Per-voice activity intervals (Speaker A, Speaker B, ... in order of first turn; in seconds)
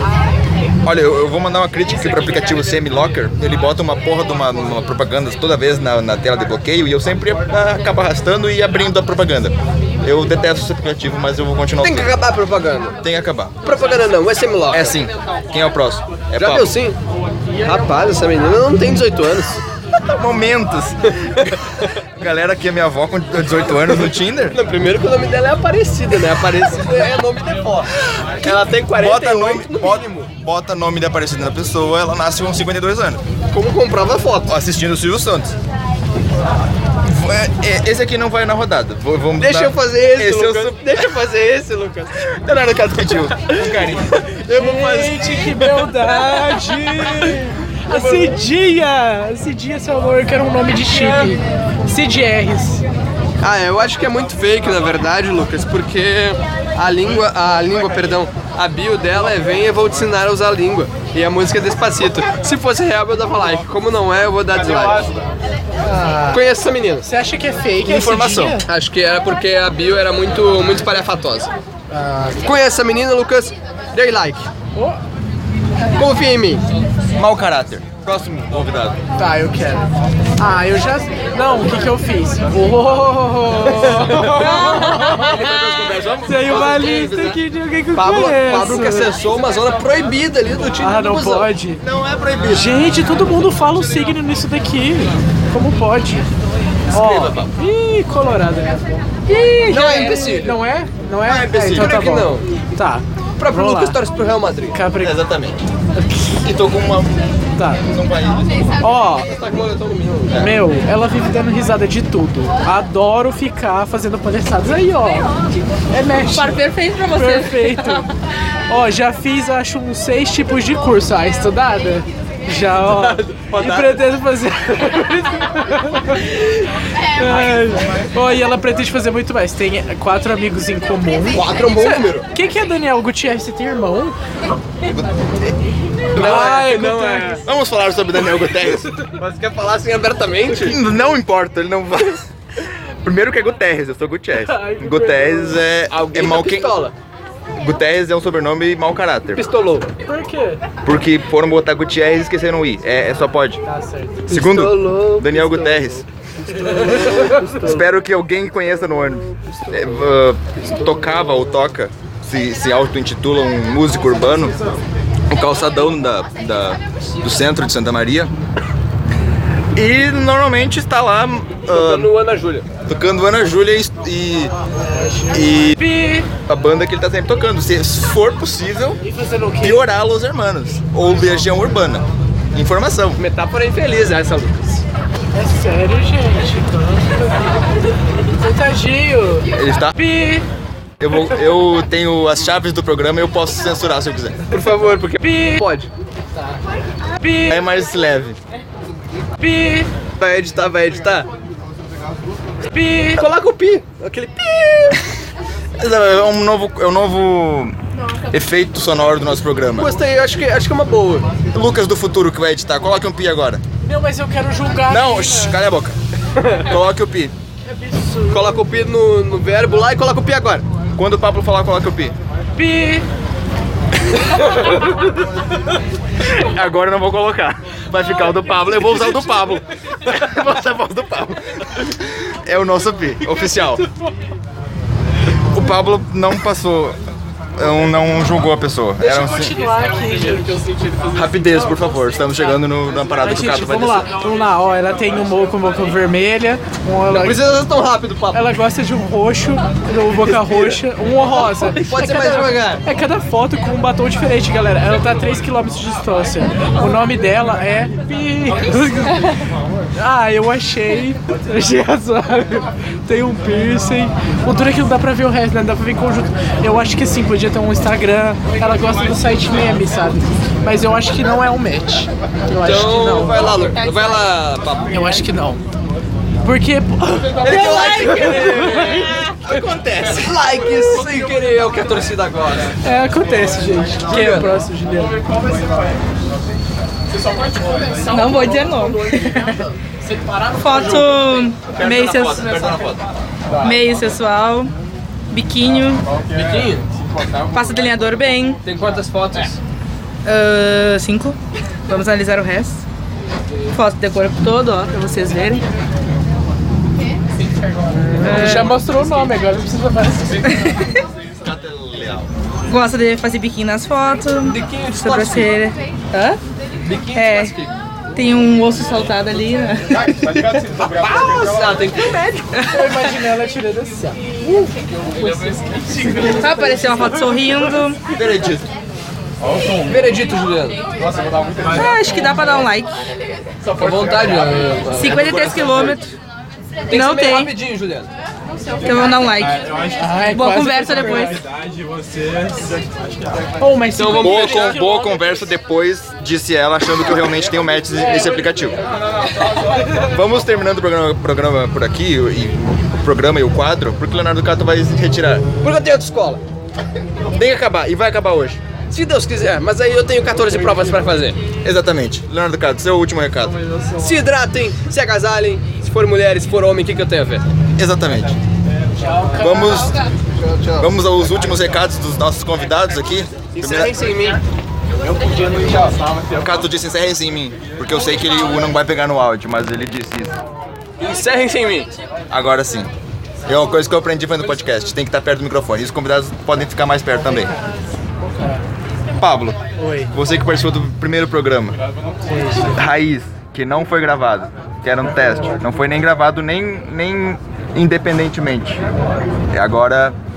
Speaker A: 0.8-12.2, 13.0-13.5, 14.7-16.7, 19.9-24.6, 28.1-33.2, 34.5-35.5, 37.0-40.8, 42.2-44.2, 67.8-68.6, 77.1-79.0, 84.2-87.4, 91.8-92.8, 96.9-97.5, 101.2-101.9, 105.0-105.6, 106.4-107.1, 107.8-108.8, 137.4-138.9, 140.5-146.8, 147.5-149.4, 150.8-153.6, 154.3-156.1, 157.5-164.6, 165.3-168.3, 169.7-172.1, 172.8-174.5, 175.3-175.8, 176.4-179.0, 179.6-183.2, 189.5-190.0, 191.0-194.4, 197.4-198.4, 205.8-207.7, 208.3-209.9, 211.5-213.6, 214.9-216.0, 216.6-217.3, 220.9-222.1, 226.2-233.8, 235.5-237.0, 237.6-239.6, 241.1-244.1, 279.5-280.2, 290.7-291.0, 291.7-293.0, 311.2-312.3, 328.1-328.7, 335.0-336.0, 344.1-348.8, 349.8-355.5, 357.3-358.6, 361.6-363.6, 367.8-368.4, 369.3-370.0, 370.8-373.9, 376.3-380.3, 382.3-382.9, 383.5-387.5, 389.2-389.6, 390.1-391.8, 392.7-398.8, 399.5-400.2
Speaker B: 11.8-13.0, 13.6-15.0, 16.4-17.0, 17.6-19.6, 24.5-30.3, 33.5-34.5, 39.4-42.1, 43.1-46.2, 47.9-48.3, 50.9-51.3, 53.4-65.1, 66.3-67.1, 68.7-71.5, 72.4-74.5, 76.0-76.6, 87.9-91.5, 99.7-100.6, 101.7-102.5, 103.4-104.8, 109.2-110.5, 122.8-124.0, 131.3-132.2, 136.1-137.4, 139.2-140.8, 145.9-146.9, 149.3-149.9, 154.3-157.8, 171.7-172.7, 183.2-184.8, 194.5-195.9, 200.2-201.3, 203.2-205.0, 209.7-211.3, 218.3-220.6, 247.1-248.5, 250.2-250.8, 251.4-252.8, 272.6-275.0, 277.4-282.7, 284.1-284.6, 296.3-297.5, 298.6-299.6, 314.4-315.5, 316.8-317.7, 320.7-322.6, 329.9-330.8, 333.7-335.4, 336.9-338.1, 343.9-344.7, 355.6-356.4, 358.9-361.4, 363.9-367.4, 370.3-370.9, 373.5-374.4, 381.0-381.9
Speaker C: 44.5-52.8, 65.8-66.5, 67.0-68.7, 71.9-72.5, 79.2-85.7, 86.2-89.1, 90.8-91.8, 92.5-96.3, 96.9-98.9, 100.0-104.0, 104.7-105.1, 106.0-106.3, 107.6-107.8, 108.8-109.3, 110.3-115.3, 115.9-118.1, 118.7-134.2, 136.1-137.4, 144.4-145.6, 150.0-150.6, 153.7-154.2, 157.1-157.3, 174.8-176.3, 179.0-179.8, 185.3-187.5, 188.3-190.4, 195.2-195.6, 197.2-197.6, 199.4-199.9, 202.6-203.2, 213.8-215.5, 217.7-218.6, 222.6-223.1, 239.0-240.9, 243.2-247.5, 248.3-273.6, 274.9-275.6, 276.4-279.3, 282.8-285.2, 307.9-310.6, 322.7-326.6, 339.9-341.4, 343.6-345.4, 389.8-390.1, 392.2-392.8
Speaker D: 99.3-100.3, 116.2-118.0, 288.0-289.6, 290.5-292.7, 293.6-294.7, 295.3-296.1, 297.5-298.6, 300.2-302.8, 303.7-305.6, 308.3-308.8, 310.5-311.0, 312.7-316.4, 317.1-317.5, 318.1-320.6, 322.6-323.1, 326.3-328.0, 331.7-332.9, 334.9-336.1, 336.9-337.6, 338.8-339.7, 340.2-341.4